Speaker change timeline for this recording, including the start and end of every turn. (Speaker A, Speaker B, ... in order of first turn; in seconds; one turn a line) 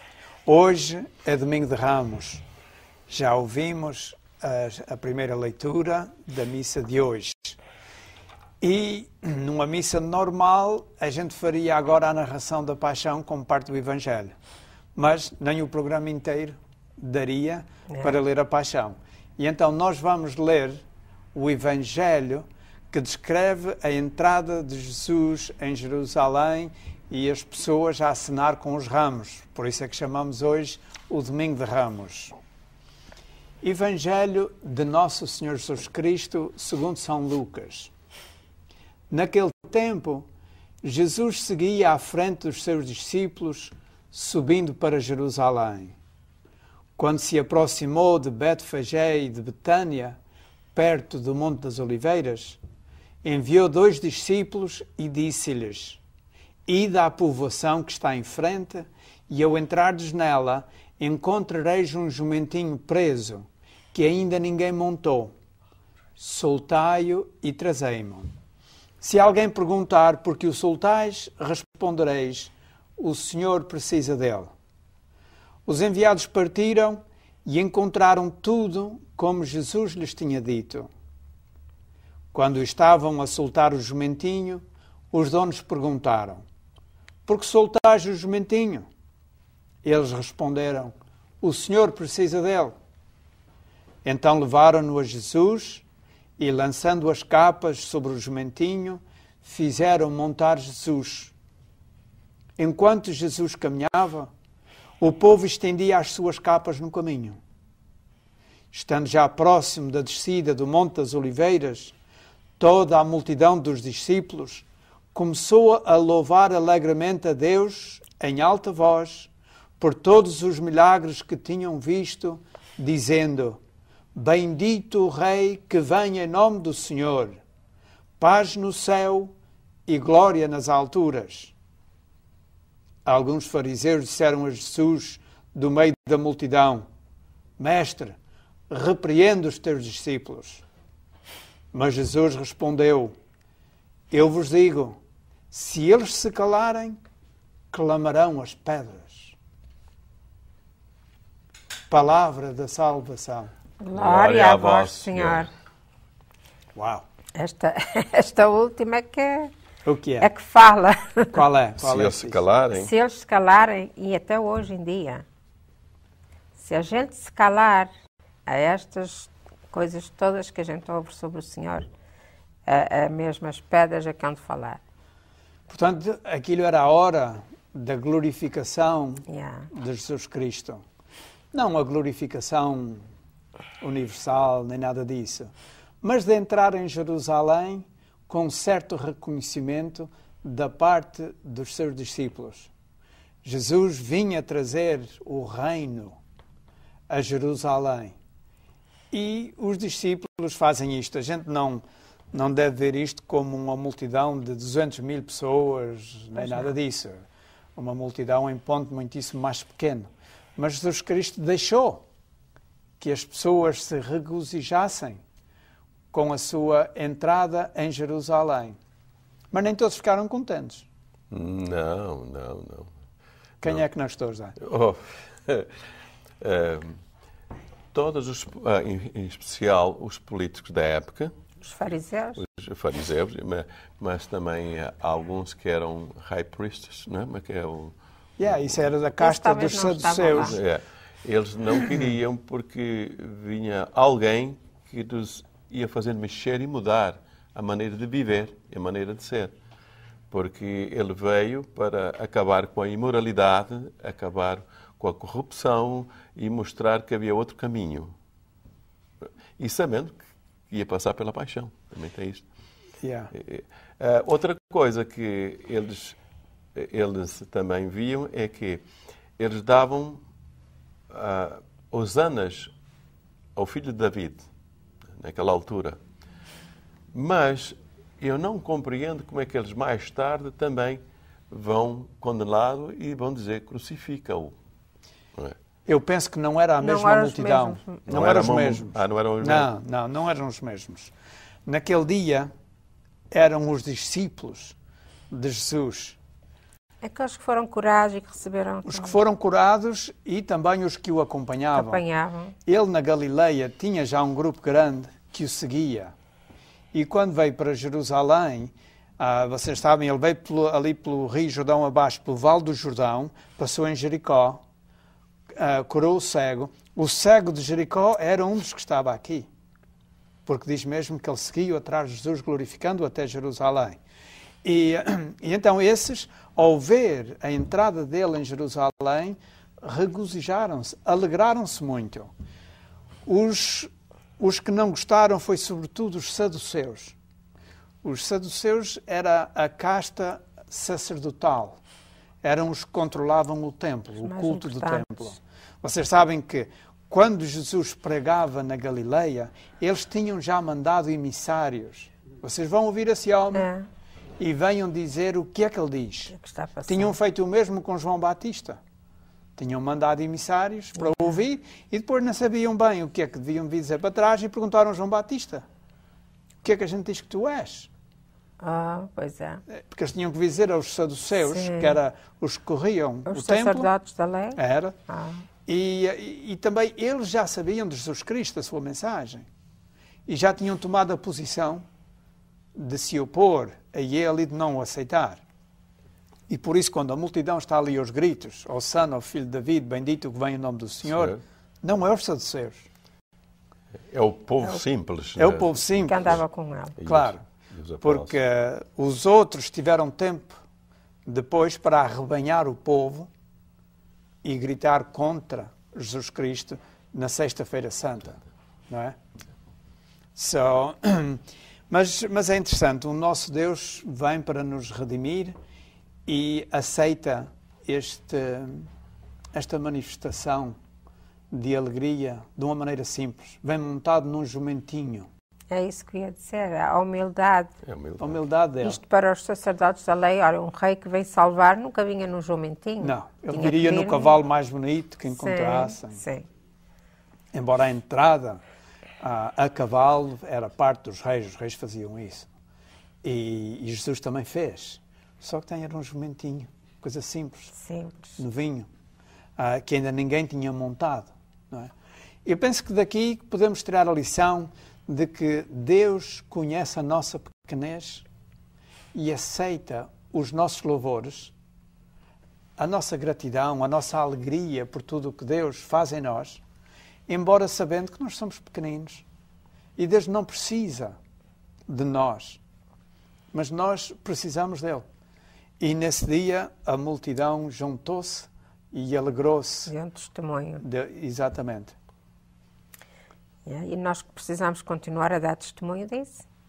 Speaker A: 0.5-2.4
Speaker A: 3.1-7.6
Speaker A: 8.6-14.3
Speaker A: 14.9-32.4
Speaker A: 33.6-37.9
Speaker A: 39.1-40.3
Speaker A: 40.8-46.0
Speaker A: 47.0-50.2
Speaker A: 50.8-52.6
Speaker A: 53.2-56.0
Speaker A: 56.7-65.3
Speaker A: 66.2-68.3
Speaker A: 69.0-74.5
Speaker A: 75.7-80.9
Speaker A: 82.3-86.4
Speaker A: 87.3-88.9
Speaker A: 89.8-92.8
Speaker A: 94.0-95.9
Speaker A: 96.4-101.3
Speaker A: 102.6-104.3
Speaker A: 105.0-107.4
Speaker A: 108.7-112.0
Speaker A: 112.6-123.6
Speaker A: 124.2-127.4
Speaker A: 128.2-129.3
Speaker A: 129.9-131.5
Speaker A: 133.1-136.8
Speaker A: 137.6-138.2
Speaker A: 138.7-140.6
Speaker A: 141.7-143.1
Speaker A: 144.1-145.0
Speaker A: 145.5-147.0
Speaker A: 147.7-149.4
Speaker A: 151.9-153.5
Speaker B: 153.8-155.5
Speaker C: 153.9-155.5
Speaker A: 156.8-157.1
Speaker B: 157.3-159.5
Speaker A: 159.8-160.3
Speaker B: 160.2-161.4
Speaker A: 161.3-162.4
Speaker C: 161.8-162.9
Speaker B: 162.7-165.2
Speaker B: 166.6-167.9
Speaker B: 168.5-171.9
Speaker B: 172.7-174.8
Speaker A: 175.7-180.8
Speaker B: 179.3-179.7
Speaker A: 181.5-183.0
Speaker A: 183.8-192.7
Speaker A: 193.4-196.2
Speaker A: 197.1-198.2
Speaker A: 199.1-207.2
Speaker B: 206.4-206.7
Speaker A: 207.8-212.1
Speaker A: 213.0-215.2
Speaker A: 216.1-218.8
Speaker A: 219.5-220.9
Speaker C: 221.3-222.9
Speaker A: 223.6-224.6
Speaker C: 224.6-225.7
Speaker C: 226.4-227.0
Speaker C: 227.9-231.3
Speaker B: 231.6-232.4
Speaker C: 232.4-237.9
Speaker A: 238.4-240.6
Speaker B: 239.2-240.6
Speaker C: 240.4-249.5
Speaker C: 250.3-258.1
Speaker C: 259.2-262.5
Speaker A: 263.0-263.3
Speaker C: 263.3-266.2
Speaker C: 266.8-268.8
Speaker C: 269.4-270.2
Speaker C: 271.1-272.7
Speaker C: 273.6-274.5
Speaker C: 275.2-276.0
Speaker C: 277.1-284.6
Speaker A: 285.9-291.1
Speaker B: 286.8-288.4
Speaker C: 288.1-289.7
Speaker A: 291.7-292.5
Speaker A: 293.3-294.8
Speaker A: 295.3-296.2
Speaker B: 297.0-299.2
Speaker A: 298.9-302.0
Speaker B: 301.7-302.6
Speaker A: 302.7-306.1
Speaker A: 306.9-314.6
Speaker A: 315.5-319.5
Speaker A: 320.5-324.0
Speaker A: 324.6-332.3
Speaker A: 333.3-337.2
Speaker A: 338.0-341.8
Speaker A: 342.4-353.7
Speaker B: 344.2-345.2
Speaker B: 353.5-353.9
Speaker A: 354.4-356.3
Speaker B: 356.3-357.1
Speaker A: 356.9-358.8
Speaker A: 359.6-365.6
Speaker A: 366.6-367.9
Speaker B: 368.6-369.6
Speaker A: 369.7-373.9
Speaker B: 371.4-372.0
Speaker B: 373.3-375.5
Speaker A: 374.6-375.0
Speaker A: 375.7-379.5
Speaker A: 380.3-381.9
Speaker A: 382.8-385.4
Speaker A: 386.5-392.9
Speaker C: 391.1-391.4
Speaker C: 394.1-396.4
Speaker A: 395.4-396.4
Speaker B: 396.0-397.0
Speaker C: 397.0-398.3
Speaker A: 397.0-397.4
Speaker A: 398.0-400.6
Speaker A: 401.3-403.3
Speaker A: 404.4-409.2
Speaker A: 410.4-415.6
Speaker A: 416.3-418.9
Speaker A: 419.5-420.8
Speaker A: 421.5-425.3
Speaker B: 425.7-427.7
Speaker C: 427.9-428.4
Speaker A: 428.2-429.0
Speaker B: 428.8-434.4
Speaker A: 433.0-436.2
Speaker B: 435.3-436.5
Speaker A: 437.5-438.6
Speaker A: 439.2-442.5
Speaker A: 443.2-447.7
Speaker B: 447.8-448.4
Speaker A: 448.4-448.9
Speaker A: 449.6-451.9
Speaker A: 452.4-458.3
Speaker A: 459.1-461.5
Speaker A: 462.8-466.6
Speaker A: 467.3-469.2
Speaker A: 470.0-471.1
Speaker A: 471.9-472.6
Speaker A: 473.5-475.1
Speaker A: 475.8-479.9
Speaker B: 479.9-480.8
Speaker A: 480.8-481.9
Speaker B: 483.7-486.4